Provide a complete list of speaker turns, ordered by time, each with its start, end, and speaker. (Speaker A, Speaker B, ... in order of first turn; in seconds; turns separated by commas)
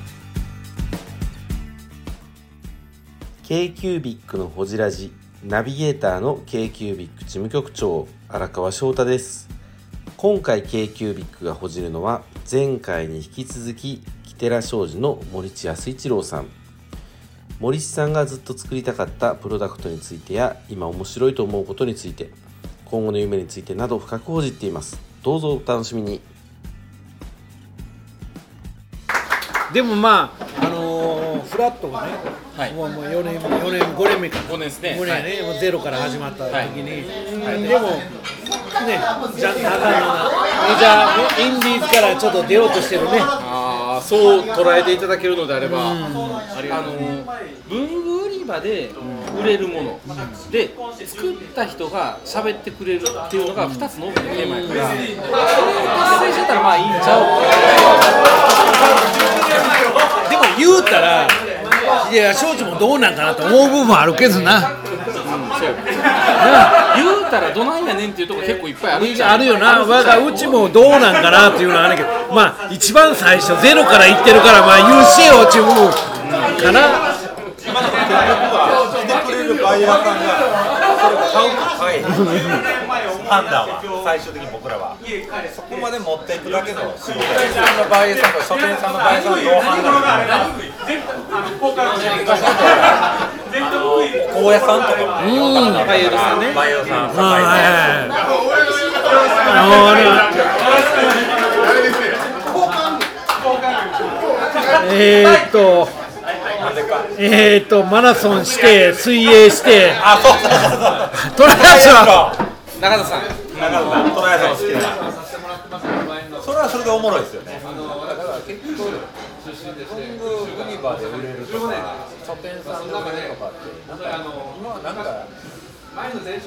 Speaker A: 3.4-9.5, Speaker A: 10.2-16.5, Speaker A: 17.6-26.3, Speaker B: 29.7-38.0, Speaker C: 34.4-35.3, Speaker C: 36.5-37.8, Speaker B: 38.8-43.3, Speaker C: 43.4-46.0, Speaker B: 45.6-46.5, Speaker C: 46.5-55.0, Speaker B: 50.1-50.4, Speaker B: 53.6-55.0, Speaker C: 55.6-58.2, Speaker B: 60.2-61.4, Speaker B: 62.0-64.7, Speaker C: 65.2-65.8, Speaker B: 66.4-66.8, Speaker C: 66.8-70.9, Speaker B: 68.9-77.0, Speaker C: 76.2-76.6, Speaker D: 77.6-90.6, Speaker B: 82.1-82.6, Speaker D: 91.9-93.1, Speaker D: 93.6-98.0, Speaker B: 95.2-95.9, Speaker C: 95.7-96.7, Speaker B: 97.1-98.1, Speaker B: 99.3-100.3, Speaker B: 104.7-105.9, Speaker D: 106.6-107.1, Speaker B: 107.2-110.0, Speaker D: 110.0-112.4, Speaker B: 111.1-112.3, Speaker C: 112.8-114.4, Speaker D: 113.5-115.0, Speaker D: 116.4-119.0, Speaker D: 119.8-125.3